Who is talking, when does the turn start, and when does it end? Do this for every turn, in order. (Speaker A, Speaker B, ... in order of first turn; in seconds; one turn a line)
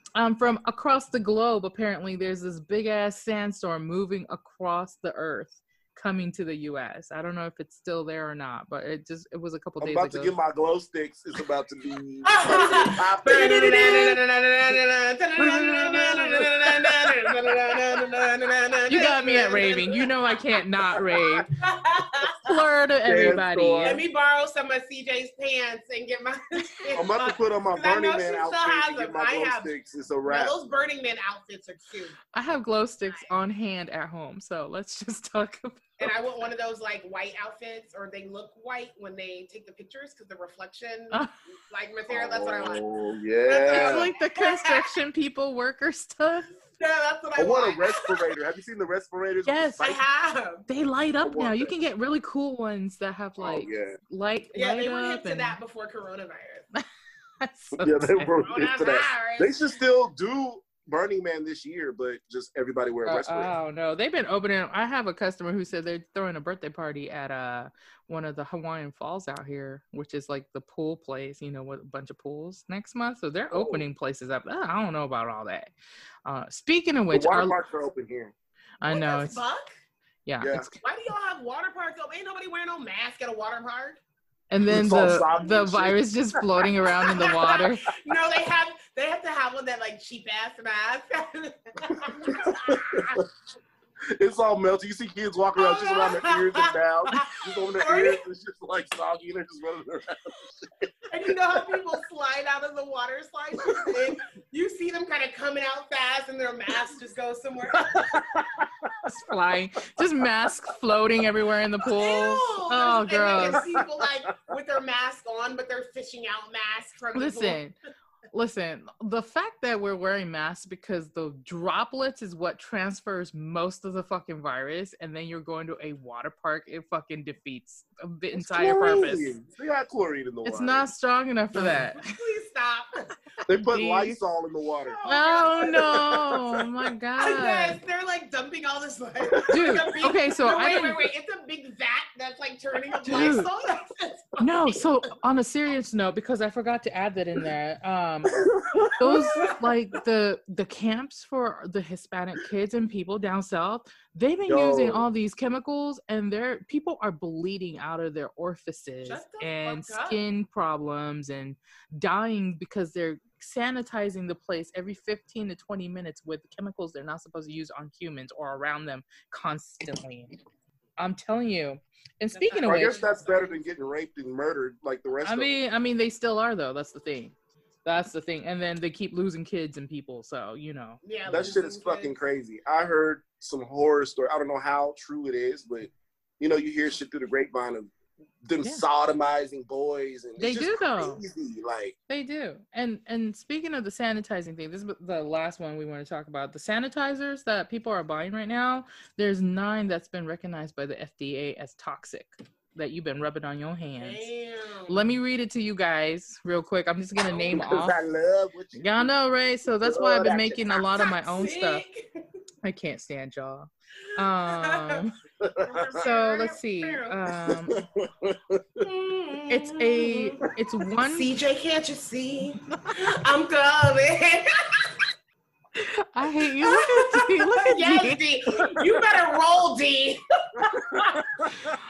Speaker A: 0.2-10.3
Speaker B: 9.8-14.2
Speaker C: 12.3-20.1
Speaker B: 15.4-18.0
Speaker A: 18.9-21.5
Speaker B: 21.1-21.4
Speaker C: 21.6-22.5
Speaker A: 22.4-24.0
Speaker B: 23.1-24.0
Speaker C: 23.8-29.7
Speaker B: 26.9-30.5
Speaker C: 30.2-32.2
Speaker A: 32.3-35.9
Speaker C: 36.0-42.9
Speaker B: 42.1-44.1
Speaker C: 43.4-44.9
Speaker A: 43.7-46.5
Speaker C: 46.8-48.3
Speaker B: 47.4-50.0
Speaker A: 49.5-50.0
Speaker C: 49.8-50.6
Speaker A: 50.7-55.6
Speaker B: 51.2-51.7
Speaker B: 53.4-54.0
Speaker C: 54.5-56.7
Speaker A: 57.4-58.5
Speaker B: 57.8-63.5
Speaker C: 58.4-59.7
Speaker A: 63.1-75.7
Speaker B: 73.5-73.8
Speaker A: 76.2-77.6
Speaker B: 77.1-78.3
Speaker A: 78.8-79.4
Speaker C: 78.9-79.7
Speaker A: 80.3-80.8
Speaker C: 80.8-84.0
Speaker A: 84.5-87.9
Speaker B: 84.7-87.6
Speaker C: 87.2-93.2
Speaker B: 92.0-93.3
Speaker B: 94.1-101.8
Speaker C: 95.6-98.2
Speaker C: 101.1-108.4
Speaker B: 103.6-104.1
Speaker B: 107.9-109.3
Speaker A: 109.1-113.6
Speaker C: 111.8-117.6
Speaker B: 113.4-114.3
Speaker A: 117.2-117.7
Speaker A: 118.3-129.3
Speaker B: 128.3-130.9
Speaker A: 130.4-132.2
Speaker C: 131.6-133.1
Speaker B: 133.5-135.0
Speaker A: 133.5-134.2
Speaker C: 134.9-136.1
Speaker A: 135.1-137.8
Speaker B: 135.6-136.7
Speaker C: 137.2-144.8
Speaker B: 139.3-139.8
Speaker A: 139.5-141.1
Speaker A: 143.1-143.5
Speaker A: 144.4-170.4
Speaker B: 148.3-149.5
Speaker C: 148.9-149.6
Speaker B: 154.5-155.1
Speaker C: 159.0-160.2
Speaker A: 171.0-173.0
Speaker C: 172.3-173.8
Speaker B: 172.6-175.5
Speaker A: 175.2-177.3
Speaker A: 177.8-181.6
Speaker C: 181.0-182.2
Speaker B: 181.3-192.0
Speaker A: 190.4-191.2
Speaker A: 192.1-204.3
Speaker C: 204.0-205.1
Speaker A: 204.9-208.0
Speaker B: 207.4-209.1
Speaker A: 208.7-211.8
Speaker B: 209.8-210.9
Speaker C: 210.9-212.2
Speaker A: 212.6-215.2
Speaker C: 214.3-215.0
Speaker B: 215.4-216.0
Speaker C: 215.6-217.2
Speaker A: 216.0-217.8
Speaker B: 217.4-218.8
Speaker C: 218.8-220.5
Speaker A: 219.5-221.3
Speaker C: 221.0-224.9
Speaker A: 225.8-228.2
Speaker C: 226.6-231.3
Speaker B: 230.6-231.8